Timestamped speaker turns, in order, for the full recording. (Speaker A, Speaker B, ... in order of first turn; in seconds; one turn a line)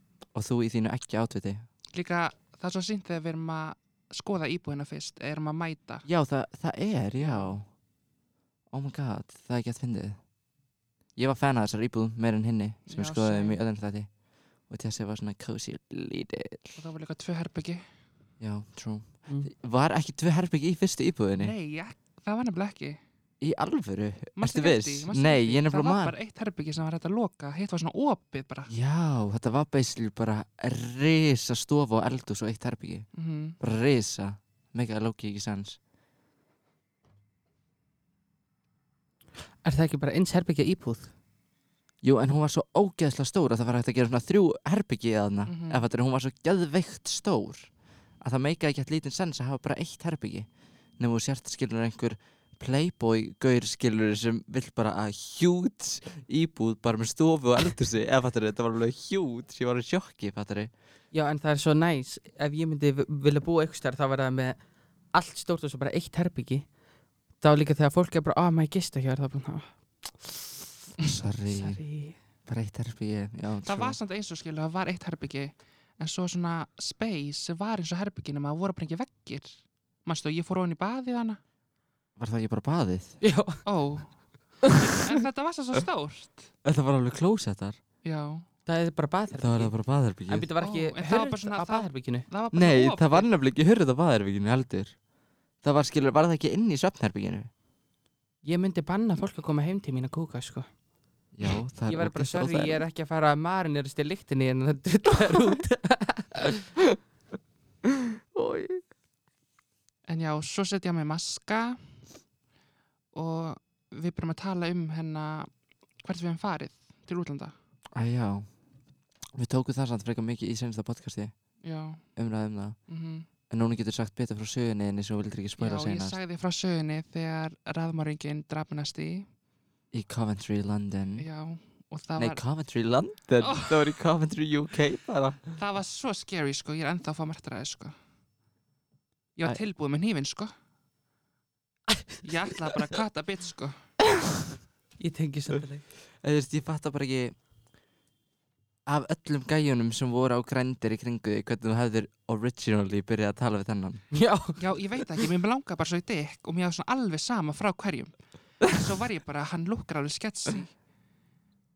Speaker A: 0.3-1.7
Speaker B: 1.9-6.1
Speaker A: 6.0-7.7
Speaker B: 7.2-7.5
Speaker A: 8.7-10.2
Speaker A: 11.2-14.1
Speaker B: 12.9-13.6
Speaker A: 14.6-16.8
Speaker B: 16.8-17.8
Speaker A: 18.4-21.5
Speaker B: 21.4-23.0
Speaker A: 23.4-26.1
Speaker B: 24.4-28.7
Speaker A: 28.7-33.1
Speaker B: 33.1-33.6
Speaker A: 33.6-35.8
Speaker C: 39.6-41.1
Speaker A: 42.0-47.7
Speaker B: 45.5-45.9
Speaker A: 48.2-50.5
Speaker A: 51.0-60.7
Speaker C: 61.1-64.6
Speaker C: 65.1-66.7
Speaker C: 67.4-70.5
Speaker A: 71.0-71.8
Speaker C: 71.4-72.2
Speaker A: 72.5-74.0
Speaker B: 73.6-81.4
Speaker A: 82.2-83.2
Speaker C: 83.2-83.6
Speaker B: 83.6-86.5
Speaker A: 86.6-87.8
Speaker B: 88.0-88.4
Speaker C: 88.7-89.7
Speaker A: 89.3-90.5
Speaker C: 90.3-92.2
Speaker B: 90.6-93.3
Speaker A: 92.5-95.0
Speaker A: 95.6-97.5
Speaker C: 98.4-100.7
Speaker A: 101.3-102.8
Speaker C: 101.9-106.5
Speaker B: 110.1-111.8
Speaker B: 113.1-115.5
Speaker B: 116.0-117.5
Speaker A: 117.9-118.5
Speaker A: 119.3-121.3
Speaker B: 121.6-122.0
Speaker A: 122.2-122.8
Speaker B: 122.9-123.3
Speaker A: 123.5-126.2
Speaker B: 125.6-129.3
Speaker A: 129.9-131.3
Speaker B: 131.2-132.4
Speaker A: 132.2-135.4
Speaker B: 133.4-133.9
Speaker B: 135.6-137.9
Speaker B: 139.3-140.5
Speaker B: 142.2-143.8
Speaker C: 145.0-145.8
Speaker A: 146.2-147.3
Speaker A: 148.8-154.1
Speaker C: 154.1-154.6
Speaker B: 154.6-160.7